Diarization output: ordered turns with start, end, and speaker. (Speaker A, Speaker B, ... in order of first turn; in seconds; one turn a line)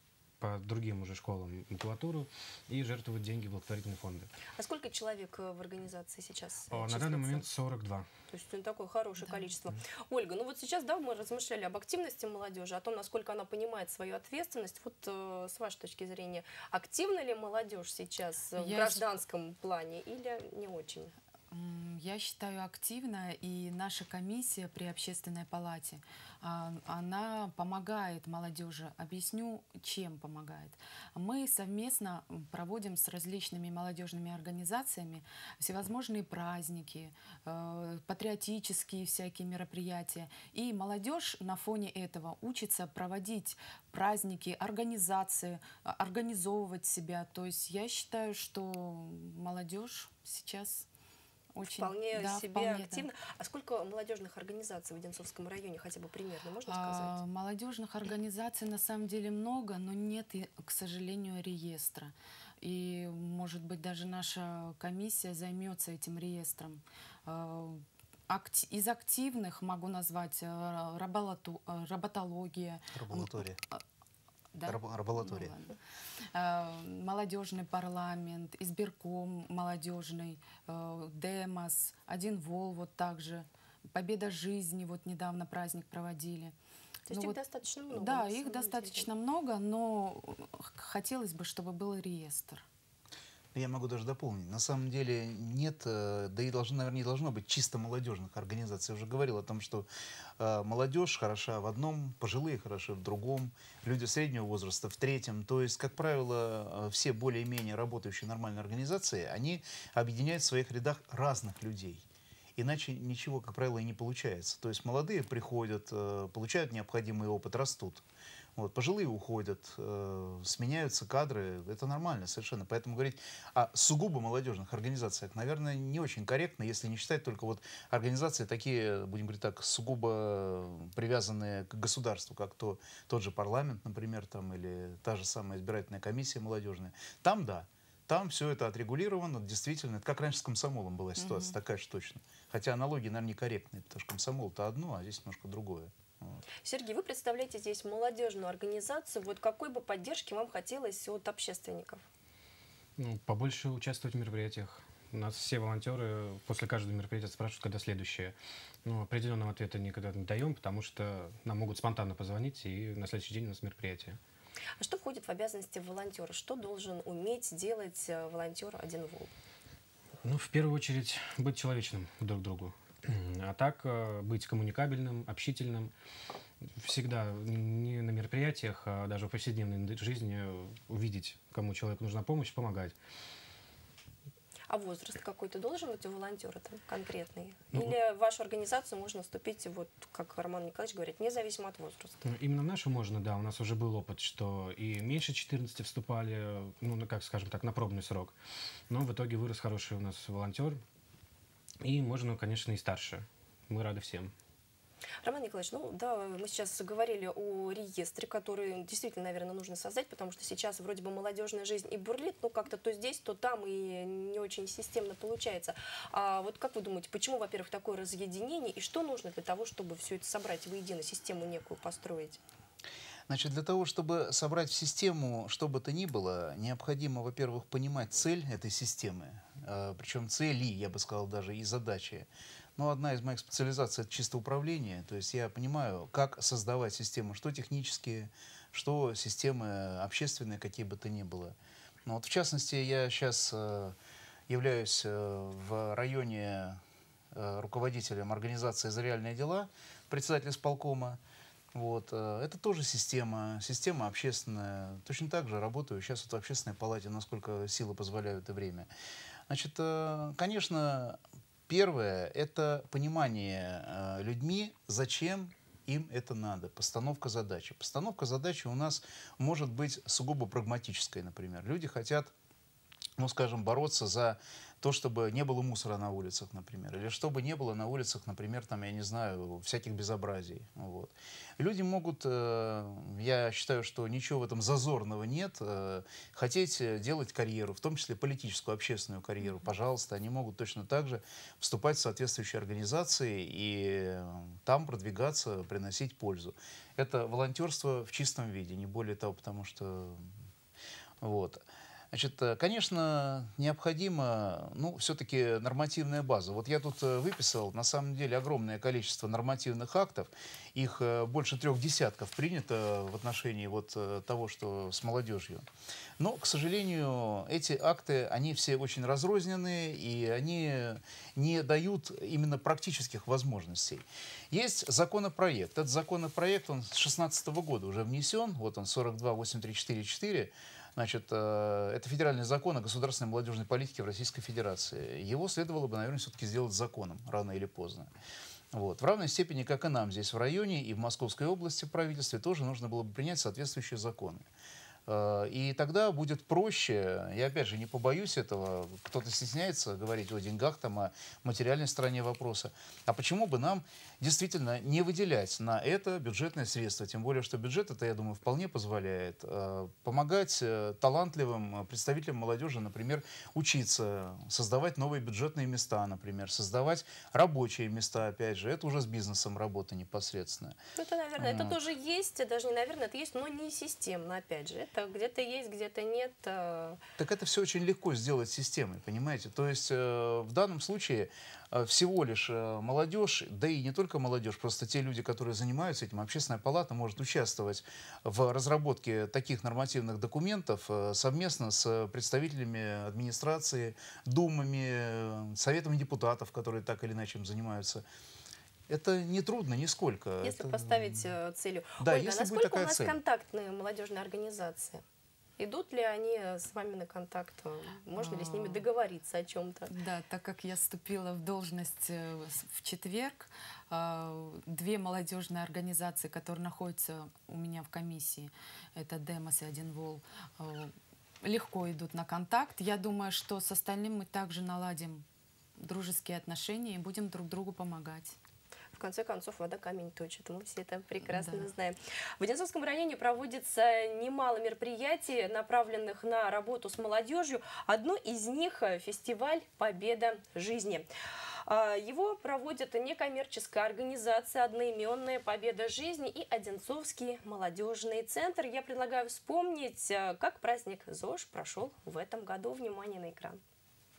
Speaker A: 0.4-4.3
Speaker B: 4.6-7.5
Speaker A: 6.7-8.1
Speaker B: 8.3-21.1
Speaker C: 9.2-9.5
Speaker C: 18.6-19.0
Speaker C: 21.5-50.9
Speaker C: 51.5-53.0
Speaker B: 51.6-57.2
Speaker C: 56.7-73.8
Speaker D: 72.9-73.6
Speaker C: 74.5-75.8
Speaker D: 74.7-75.5
Speaker C: 76.3-86.5
Speaker B: 87.1-89.1
Speaker C: 87.1-87.4
Speaker C: 87.9-92.7
Speaker D: 93.5-99.9
Speaker D: 100.4-112.0
Speaker D: 112.6-118.0
Speaker D: 118.6-146.4
Speaker C: 141.2-141.6
Speaker B: 146.6-152.1
Speaker A: 153.0-164.2
Speaker B: 164.8-169.3
Speaker A: 170.2-175.9
Speaker A: 176.8-182.9
Speaker B: 184.7-192.2
Speaker A: 192.2-198.3
Speaker A: 198.9-200.8
Speaker A: 201.8-204.3
Speaker B: 205.2-222.4
Speaker D: 223.3-243.9
Speaker D: 244.5-246.8
Speaker D: 247.3-251.2
Speaker D: 251.7-258.9
Speaker D: 259.5-272.3
Speaker D: 273.2-300.3
Speaker D: 301.2-315.7
Speaker D: 316.2-338.1
Speaker D: 338.7-344.4
Speaker D: 345.1-370.8
Speaker B: 371.0-377.0
Speaker D: 371.4-371.8
Speaker D: 377.2-398.1
Speaker D: 398.9-401.3
Speaker B: 400.4-405.0
Speaker D: 402.0-403.2
Speaker B: 405.6-409.9
Speaker C: 408.2-408.8
Speaker C: 409.9-425.2
Speaker C: 425.8-428.4
Speaker B: 428.9-441.1
Speaker C: 431.3-431.7
Speaker B: 441.6-453.6